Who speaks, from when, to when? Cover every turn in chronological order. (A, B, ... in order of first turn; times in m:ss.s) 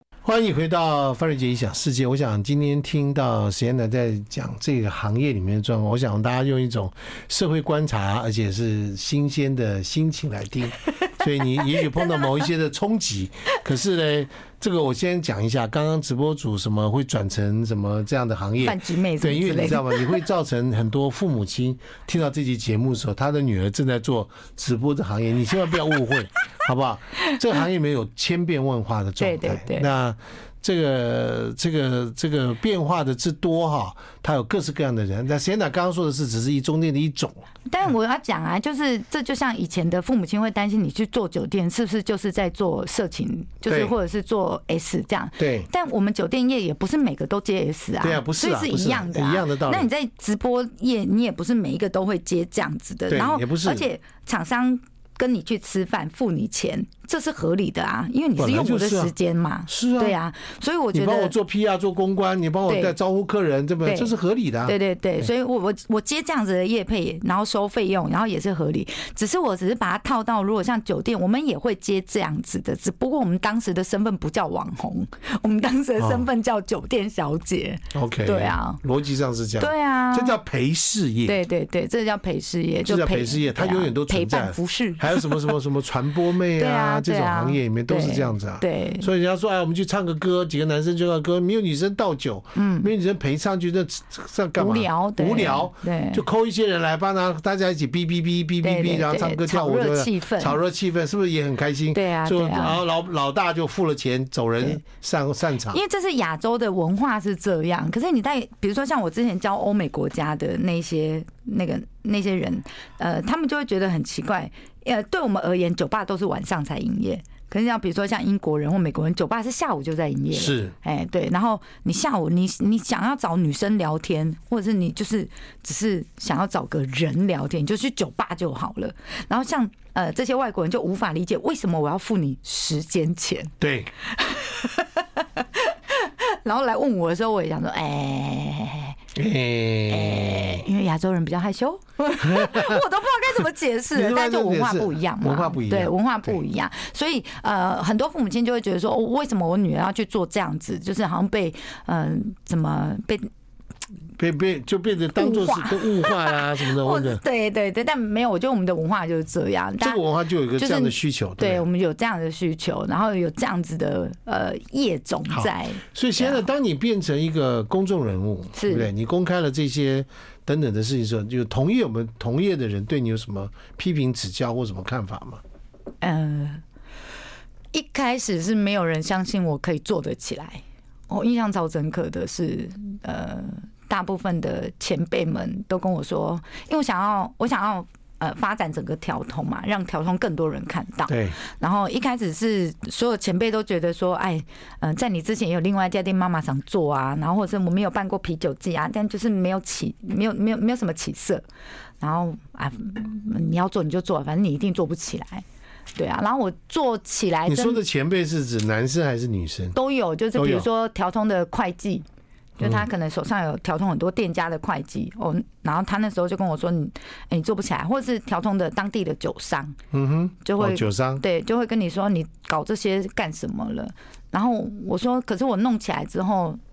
0:00.2-0:37.4 A
0:18.6-0:20.2 B
0:29.2-0:29.9 B
0:37.7-1:01.3 B
0:43.7-0:43.9 A
0:45.4-0:45.7 A
0:48.0-0:49.9 A
0:53.1-0:53.9 A
0:58.4-0:59.1 A
0:59.7-1:00.2 A
1:00.9-1:05.3 A
1:02.7-1:02.9 B
1:03.8-1:04.1 B
1:04.7-1:18.8 B
1:16.0-1:16.3 A
1:17.9-1:21.4 A
1:19.6-1:20.4 B
1:21.2-1:25.5 B
1:22.8-1:45.8 A
1:26.6-1:29.1 B
1:32.6-1:32.9 B
1:34.6-1:36.2 B
1:38.6-1:40.6 B
1:41.9-1:42.8 B
1:45.7-2:13.5 B
2:00.3-2:00.8 A
2:13.6-2:13.9 A
2:14.1-2:19.0 B
2:19.2-2:20.7 A
2:19.9-2:33.3 B
2:22.2-2:22.8 A
2:23.9-2:26.4 A
2:34.2-2:37.2 A
2:35.2-2:40.0 B
2:39.8-2:41.6 A
2:40.6-2:46.4 B
2:45.3-2:55.4 A
2:48.6-2:48.9 B
2:56.0-2:56.6 B
2:57.7-3:21.4 B
3:11.1-3:11.4 A
3:22.0-3:25.4 B
3:26.0-3:27.8 B
3:27.5-3:29.8 A
3:29.8-3:32.1 B
3:30.4-3:30.7 A
3:32.6-3:39.8 B
3:32.6-3:32.8 A
3:39.9-3:41.2 A
3:40.4-3:46.6 B